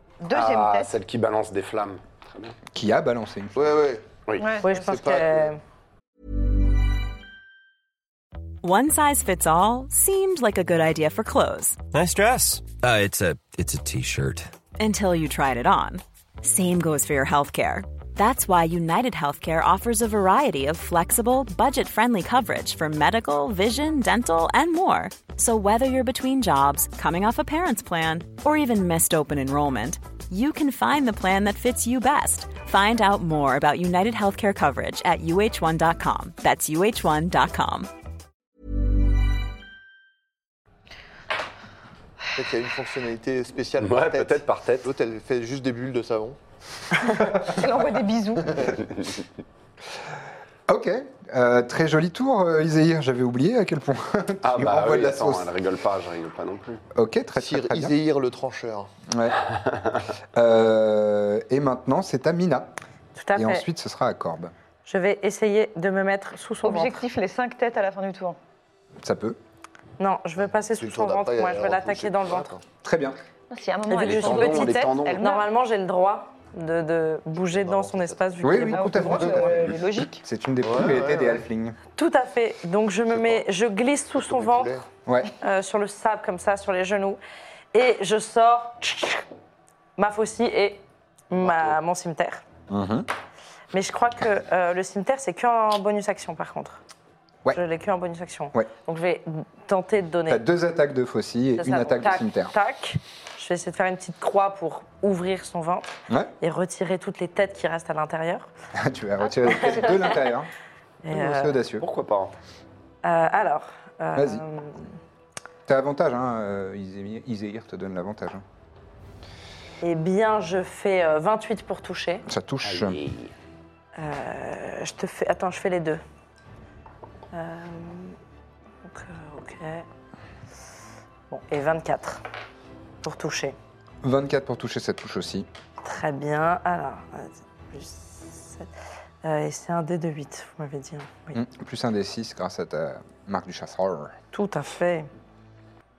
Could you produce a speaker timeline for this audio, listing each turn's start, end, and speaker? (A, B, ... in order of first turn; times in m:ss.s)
0:00.2-0:00.9 A
0:00.3-0:02.6 B
0:02.7-0:03.7 C
0:03.6-0:04.1 D
0:04.4-0:04.7 A
0:04.6-0:05.6 E
0:04.7-0:05.5 D
0:08.6-0:11.8 F
0:11.9-0:14.5 G
0:14.8-0:37.9 F
0:42.4-0:46.4 D
0:43.8-0:44.9 B
0:47.4-0:48.7 A
0:48.8-0:49.2 B
0:50.7-0:55.5 C
0:54.4-0:56.8 B
0:56.9-0:58.0 C
0:57.4-0:58.9 D
0:59.1-0:59.4 C
1:00.4-1:02.7 C
1:03.2-1:03.7 E
1:03.3-1:04.5 C
1:04.8-1:07.0 E
1:06.6-1:08.4 A
1:09.0-1:09.4 C
1:10.0-1:12.6 E
1:10.4-1:12.6 D
1:12.8-1:13.2 C
1:13.5-1:15.5 A
1:13.9-1:15.2 B
1:13.9-1:19.6 E
1:17.4-1:18.5 D
1:18.4-1:19.6 C
1:18.7-1:20.2 A
1:20.2-1:21.8 C
1:20.6-1:21.4 D
1:22.0-1:24.8 E
1:23.1-1:23.4 D
1:24.2-1:24.9 D
1:25.1-1:25.3 C
1:25.4-1:27.2 E
1:27.7-1:29.2 E
1:30.0-1:32.4 E
1:32.7-1:33.1 C
1:33.7-1:36.8 E
1:37.5-1:40.4 E
1:40.3-1:42.5 C
1:41.6-1:45.9 E
1:46.4-1:48.5 E
1:48.7-1:50.5 C
1:49.5-1:50.2 E
1:51.0-1:51.6 E
1:51.1-1:51.9 C
1:51.8-1:52.3 B
1:53.0-1:54.9 E
1:54.2-1:54.4 C
1:55.7-1:58.4 C
1:59.8-2:02.2 E
2:02.3-2:03.0 C
2:02.6-2:03.3 B
2:04.0-2:06.0 E
2:07.3-2:08.2 E
2:08.8-2:09.9 E
2:11.3-2:12.2 E
2:13.0-2:13.6 E
2:14.0-2:15.5 C
2:15.8-2:18.7 E
2:19.2-2:21.4 E
2:21.3-2:24.2 C
2:24.3-2:25.1 E